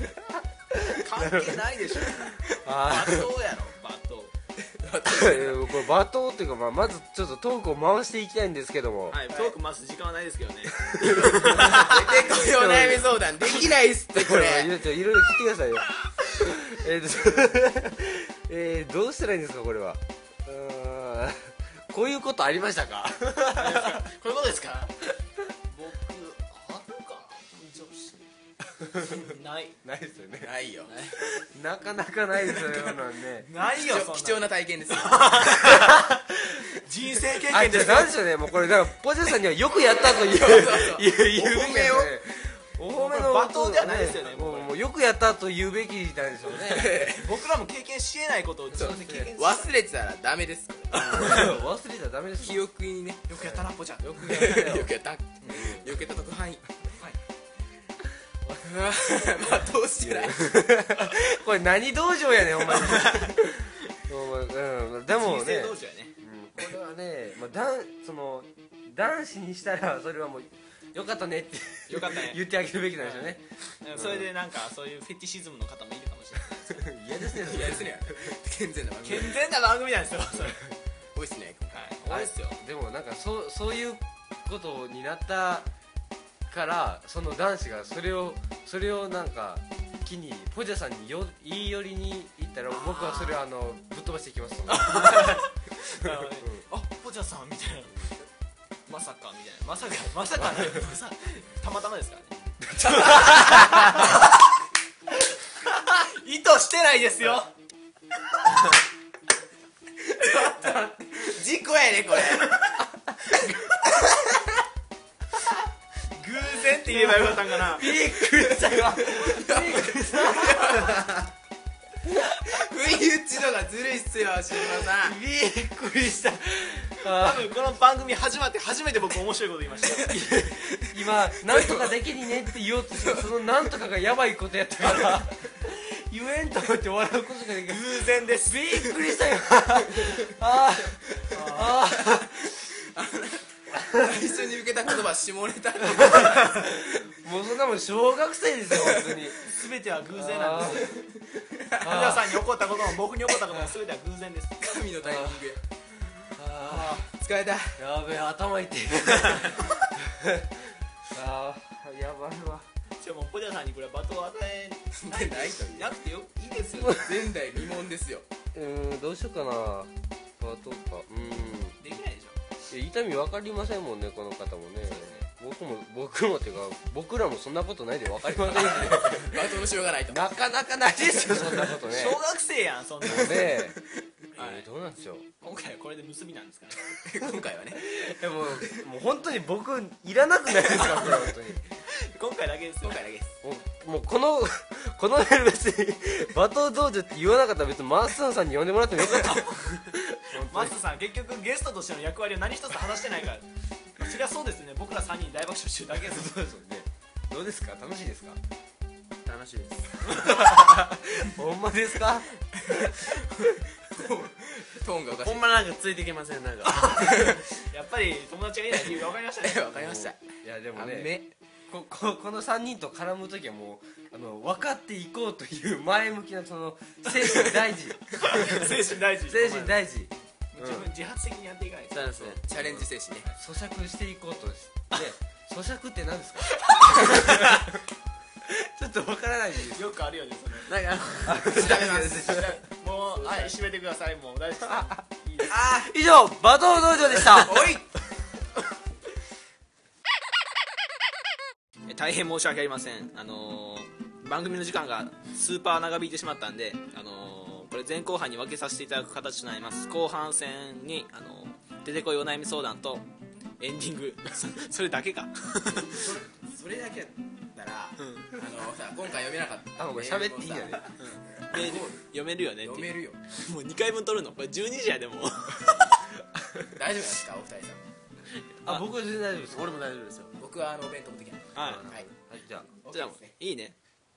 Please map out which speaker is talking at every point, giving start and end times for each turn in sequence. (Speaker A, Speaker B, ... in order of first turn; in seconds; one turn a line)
Speaker A: 0.7-1.6
Speaker B: 0.9-4.3
Speaker A: 2.3-3.3
Speaker C: 4.6-5.8
Speaker A: 5.0-9.5
Speaker B: 9.1-12.1
Speaker A: 10.8-24.0
Speaker C: 11.6-14.8
Speaker B: 23.6-24.9
Speaker B: 25.7-28.2
Speaker A: 28.8-29.3
Speaker B: 29.1-29.8
Speaker A: 29.8-30.5
Speaker C: 30.4-30.9
Speaker B: 30.9-31.1
Speaker A: 31.3-33.5
Speaker B: 33.4-34.5
Speaker C: 33.6-35.8
Speaker B: 35.0-36.0
Speaker A: 35.7-36.3
Speaker B: 36.8-38.1
Speaker A: 37.5-47.1
Speaker C: 40.1-42.1
Speaker B: 42.9-44.7
Speaker C: 46.6-47.3
Speaker B: 47.1-49.7
Speaker A: 48.7-49.3
Speaker C: 48.7-51.6
Speaker A: 51.0-52.6
Speaker C: 52.4-53.2
Speaker B: 53.3-54.7
Speaker A: 53.4-54.9
Speaker C: 54.2-56.8
Speaker B: 55.4-55.8
Speaker C: 58.5-61.0
Speaker A: 60.0-73.4
Speaker B: 62.9-63.4
Speaker B: 65.1-66.7
Speaker B: 71.9-72.4
Speaker B: 73.0-76.9
Speaker A: 73.9-74.3
Speaker A: 76.7-78.0
Speaker C: 77.4-79.5
Speaker B: 79.0-80.6
Speaker C: 81.1-81.9
Speaker B: 81.7-82.6
Speaker A: 82.1-85.7
Speaker A: 86.5-95.4
Speaker B: 92.7-93.4
Speaker B: 94.7-98.0
Speaker A: 96.0-96.6
Speaker B: 98.9-102.3
Speaker A: 102.7-103.9
Speaker C: 102.8-103.9
Speaker B: 102.9-104.2
Speaker B: 105.9-107.5
Speaker C: 110.1-112.7
Speaker C: 114.0-114.3
Speaker B: 116.1-117.9
Speaker A: 116.8-121.2
Speaker C: 118.2-121.3
Speaker C: 122.4-125.2
Speaker A: 124.8-127.6
Speaker B: 127.0-130.1
Speaker A: 130.1-142.6
Speaker C: 131.4-131.9
Speaker C: 133.0-133.3
Speaker B: 137.7-138.8
Speaker C: 139.9-140.3
Speaker B: 141.3-141.8
Speaker C: 142.8-146.8
Speaker A: 143.8-144.2
Speaker A: 145.8-149.4
Speaker C: 148.7-149.2
Speaker B: 149.4-151.0
Speaker A: 150.1-151.0
Speaker C: 151.4-151.8
Speaker A: 151.8-152.4
Speaker B: 151.8-154.6
Speaker C: 154.6-155.6
Speaker A: 155.0-155.4
Speaker A: 156.3-157.1
Speaker B: 156.7-157.0
Speaker C: 157.1-157.8
Speaker A: 157.8-160.5
Speaker A: 161.1-162.7
Speaker B: 163.0-167.1
Speaker C: 164.9-165.9
Speaker C: 166.8-168.2
Speaker A: 168.5-171.8
Speaker B: 171.8-172.4
Speaker A: 172.7-179.5
Speaker B: 174.9-175.2
Speaker C: 178.6-180.4
Speaker A: 180.1-182.2
Speaker B: 181.5-183.7
Speaker A: 183.0-183.8
Speaker A: 184.3-185.2
Speaker B: 184.4-184.6
Speaker B: 185.4-186.8
Speaker C: 187.0-188.8
Speaker A: 187.8-191.6
Speaker B: 190.8-191.2
Speaker B: 191.9-193.0
Speaker C: 192.8-193.3
Speaker A: 193.4-200.8
Speaker B: 199.0-203.4
Speaker B: 204.0-206.3
Speaker A: 206.0-208.4
Speaker D: 209.2-210.1
Speaker A: 210.1-213.1
Speaker C: 213.9-215.5
Speaker D: 215.2-217.2
Speaker C: 216.9-217.4
Speaker B: 217.6-219.7
Speaker C: 219.4-221.3
Speaker A: 219.7-221.2
Speaker A: 221.7-230.9
Speaker B: 227.1-227.5
Speaker B: 228.1-229.8
Speaker B: 230.5-232.4
Speaker D: 231.9-232.8
Speaker C: 232.4-233.3
Speaker A: 233.4-237.8
Speaker C: 236.7-237.2
Speaker A: 238.4-239.8
Speaker B: 239.7-240.8
Speaker D: 240.7-241.6
Speaker A: 241.2-242.5
Speaker C: 241.4-242.5
Speaker B: 241.5-245.5
Speaker C: 243.1-243.5
Speaker A: 245.5-247.8
Speaker C: 247.2-247.8
Speaker B: 251.9-263.1
Speaker B: 263.6-266.1
Speaker C: 265.8-270.9
Speaker B: 268.0-268.3
Speaker A: 269.8-270.8
Speaker B: 271.0-276.0
Speaker C: 271.5-272.0
Speaker C: 272.6-273.2
Speaker C: 276.7-277.8
Speaker A: 278.6-279.7
Speaker D: 279.5-280.3
Speaker C: 280.4-282.1
Speaker B: 281.5-281.8
Speaker A: 281.6-282.7
Speaker C: 282.8-283.3
Speaker B: 282.9-283.8